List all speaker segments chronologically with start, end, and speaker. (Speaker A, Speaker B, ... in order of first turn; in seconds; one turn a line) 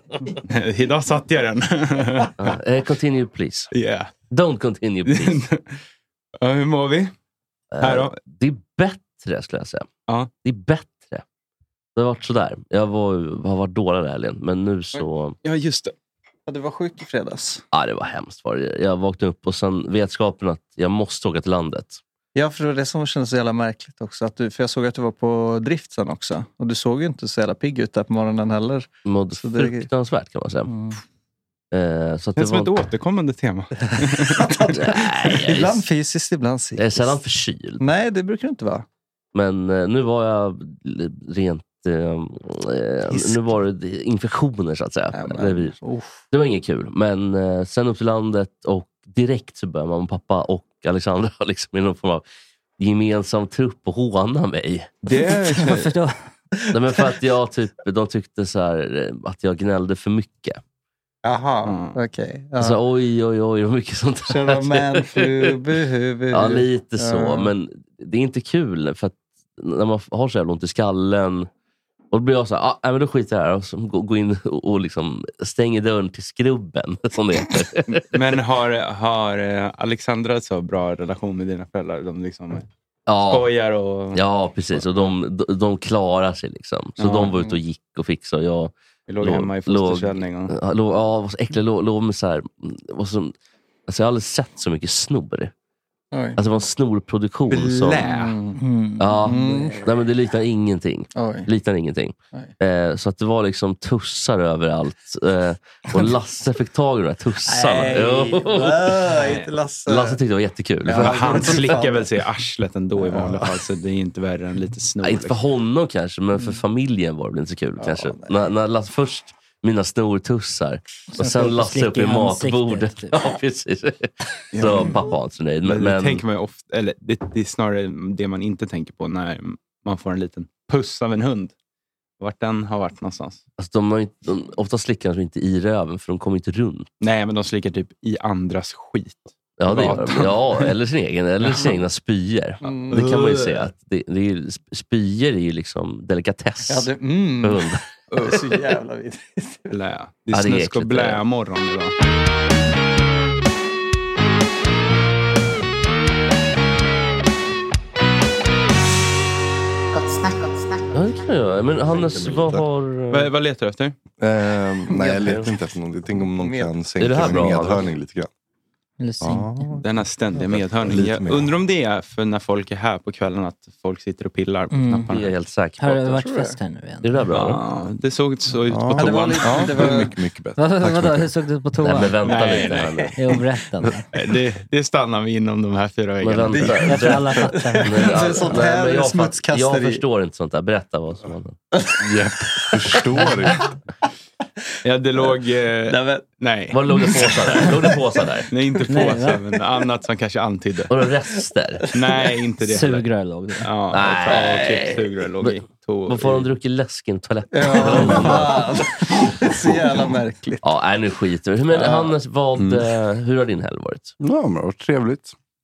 Speaker A: 0.4-2.3
Speaker B: 2.4-3.7
Speaker A: 3.7-4.1
Speaker B: 4.3-5.4
Speaker A: 5.0-5.8
Speaker A: 6.4-7.1
Speaker B: 7.7-9.9
Speaker A: 7.8-8.2
Speaker B: 10.4-11.2
Speaker B: 11.9-15.4
Speaker A: 15.4-15.9
Speaker C: 16.5-17.6
Speaker B: 17.7-22.0
Speaker C: 22.3-28.9
Speaker B: 29.1-30.7
Speaker C: 29.4-29.9
Speaker B: 31.7-32.7
Speaker A: 32.4-34.4
Speaker C: 34.2-37.1
Speaker B: 34.7-35.9
Speaker B: 36.8-37.8
Speaker C: 37.8-38.8
Speaker B: 39.3-45.7
Speaker C: 43.1-43.4
Speaker C: 45.1-46.2
Speaker B: 46.3-52.2
Speaker B: 52.8-55.0
Speaker A: 55.0-55.9
Speaker D: 55.6-56.1
Speaker B: 56.7-60.6
Speaker C: 61.2-62.8
Speaker A: 61.6-62.0
Speaker B: 62.6-65.6
Speaker C: 64.3-67.5
Speaker B: 66.3-71.5
Speaker B: 72.1-78.1
Speaker A: 78.1-82.7
Speaker B: 83.1-83.5
Speaker A: 83.2-84.2
Speaker B: 84.1-93.3
Speaker A: 84.7-85.1
Speaker A: 87.0-87.6
Speaker A: 89.1-90.5
Speaker B: 93.9-95.5
Speaker C: 96.1-96.4
Speaker B: 96.3-98.1
Speaker A: 97.5-98.4
Speaker C: 98.0-98.6
Speaker D: 98.6-99.5
Speaker B: 99.0-109.2
Speaker C: 99.2-99.9
Speaker C: 101.2-101.5
Speaker C: 107.6-110.2
Speaker A: 107.6-108.1
Speaker A: 109.1-109.5
Speaker B: 109.9-111.6
Speaker C: 110.8-112.1
Speaker A: 111.0-115.4
Speaker C: 113.0-113.6
Speaker B: 115.0-126.2
Speaker C: 117.8-118.3
Speaker D: 121.1-123.1
Speaker A: 124.5-125.0
Speaker A: 125.6-131.5
Speaker A: 132.2-133.4
Speaker B: 133.6-136.9
Speaker A: 137.0-140.7
Speaker B: 139.6-147.8
Speaker C: 142.6-143.7
Speaker C: 146.7-149.7
Speaker A: 149.7-151.9
Speaker B: 150.3-151.2
Speaker B: 160.9-163.3
Speaker E: 161.9-162.6
Speaker A: 163.1-163.9
Speaker E: 164.2-168.3
Speaker C: 164.9-165.5
Speaker C: 166.2-166.7
Speaker B: 167.0-167.9
Speaker D: 169.0-169.8
Speaker E: 169.2-169.8
Speaker A: 169.8-175.4
Speaker E: 170.5-171.5
Speaker D: 174.7-175.1
Speaker B: 175.1-176.3
Speaker D: 175.8-177.1
Speaker C: 176.2-176.6
Speaker B: 177.0-177.6
Speaker A: 177.3-179.9
Speaker E: 178.7-181.3
Speaker C: 178.9-180.2
Speaker D: 180.6-182.4
Speaker B: 181.8-183.2
Speaker A: 182.2-183.1
Speaker D: 183.2-184.1
Speaker A: 184.1-187.2
Speaker B: 186.2-191.6
Speaker D: 186.8-187.9
Speaker C: 187.7-190.0
Speaker E: 192.0-193.7
Speaker C: 193.0-193.2
Speaker A: 194.8-196.8
Speaker C: 195.8-196.3
Speaker B: 196.7-198.5
Speaker C: 196.9-198.1
Speaker A: 198.5-200.9
Speaker D: 198.9-199.4
Speaker B: 200.9-201.9
Speaker A: 201.9-203.0
Speaker D: 202.6-203.7
Speaker A: 203.6-206.5
Speaker B: 203.9-208.8
Speaker C: 207.5-210.7
Speaker B: 210.6-214.1
Speaker C: 211.7-212.1
Speaker E: 212.6-212.8
Speaker E: 214.2-215.3